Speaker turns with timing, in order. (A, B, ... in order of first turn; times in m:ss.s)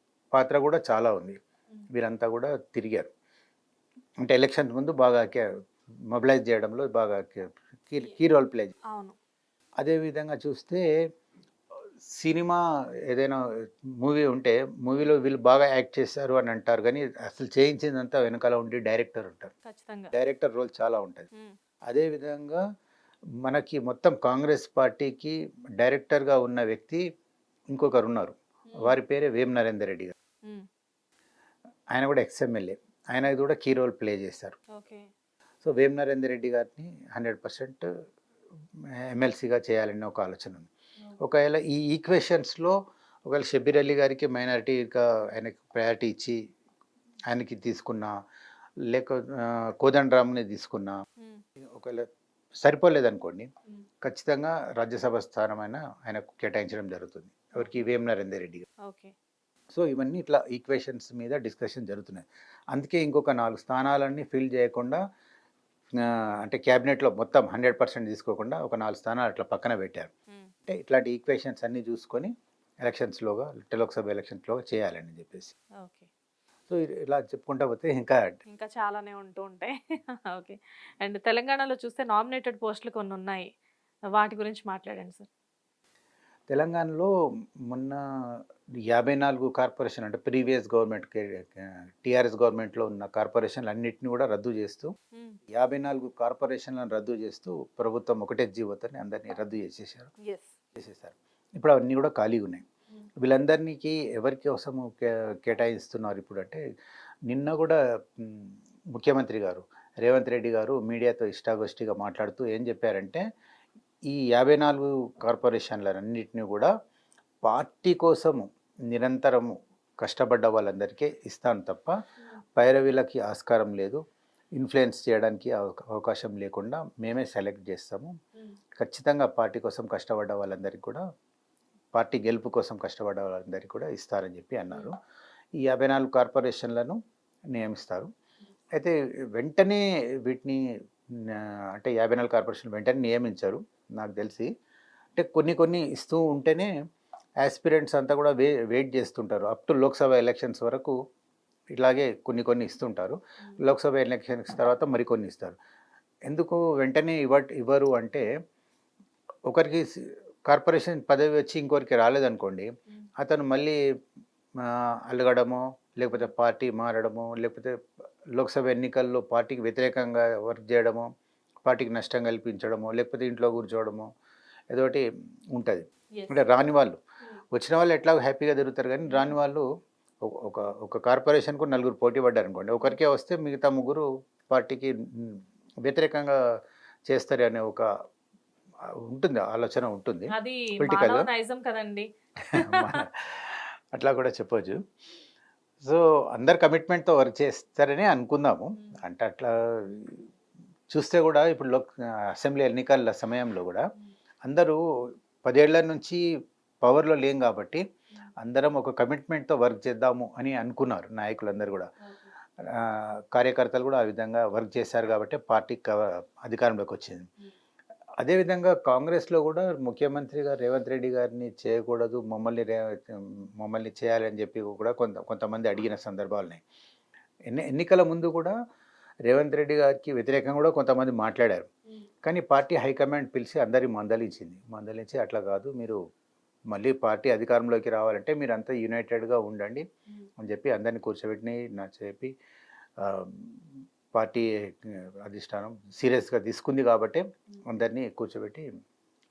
0:00.4-0:01.4 A
0:01.9-0:03.1 A
0:04.2-0:05.5 A
0:06.1-0:08.8 A
0:08.9-0:09.2 B
0:09.8-0:10.8 A
0:12.0-0:13.4 A
0:14.0-0:19.5 A
0:19.6-0:20.1 B
0:20.1-0:21.3 A
0:21.9-0:22.6 A
0:23.4-0:27.0 A
0:27.7-0:30.1 A
0:31.9-0:34.6 A
0:34.7-0:35.1 B
0:35.6-0:37.9 A
0:38.8-0:40.7 A
0:41.2-0:42.8 A
0:43.3-0:46.4 A
0:47.3-0:48.1 A
0:48.9-0:51.0 A
0:51.6-0:52.1 A
0:52.6-0:53.5 A
0:54.0-0:58.7 A
0:58.8-0:59.1 B
0:59.7-1:05.0 A
1:06.0-1:10.1 A
1:10.7-1:12.3 A
1:12.8-1:15.5 A
1:15.8-1:16.1 B
1:16.7-1:18.3 A
1:18.5-1:23.5 B
1:24.2-1:25.3 B
1:26.5-1:27.1 A
1:27.7-1:34.9 A
1:35.1-1:35.4 B
1:35.5-1:40.1 A
1:40.2-1:40.6 B
1:40.8-1:42.6 A
1:43.2-1:46.6 A
1:47.3-1:53.2 A
1:54.1-1:56.7 A
1:57.4-2:01.9 A
2:02.6-2:04.0 A
2:04.6-2:08.1 A
2:08.8-2:11.0 A
2:12.0-2:14.9 A
2:15.6-2:17.0 A
2:17.5-2:18.1 A
2:18.8-2:20.6 A
2:21.2-2:24.5 A
2:25.2-2:26.7 A
2:27.4-2:31.0 A
2:31.8-2:35.6 A
2:36.3-2:38.2 A
2:39.5-2:43.8 A
2:44.6-2:47.8 A
2:48.4-2:51.1 A
2:51.6-2:54.1 A
2:54.7-2:57.0 A
2:56.2-2:56.4 B
2:57.5-2:59.6 A
2:59.1-2:59.3 B
3:00.2-3:06.4 A
3:07.1-3:07.9 A
3:08.9-3:11.3 A
3:10.3-3:13.0 B
3:12.5-3:14.8 A
3:15.8-3:20.3 A
3:18.8-3:19.0 B
3:20.9-3:23.8 A
3:24.4-3:24.8 A
3:25.4-3:26.2 A
3:26.8-3:27.8 A
3:28.4-3:31.9 A
3:32.6-3:37.3 A
3:38.2-3:46.6 A
3:47.5-3:48.5 A
3:49.3-3:51.7 A
3:52.2-3:56.0 A
3:56.7-3:59.8 A
4:00.4-4:02.3 A
4:03.0-4:08.7 A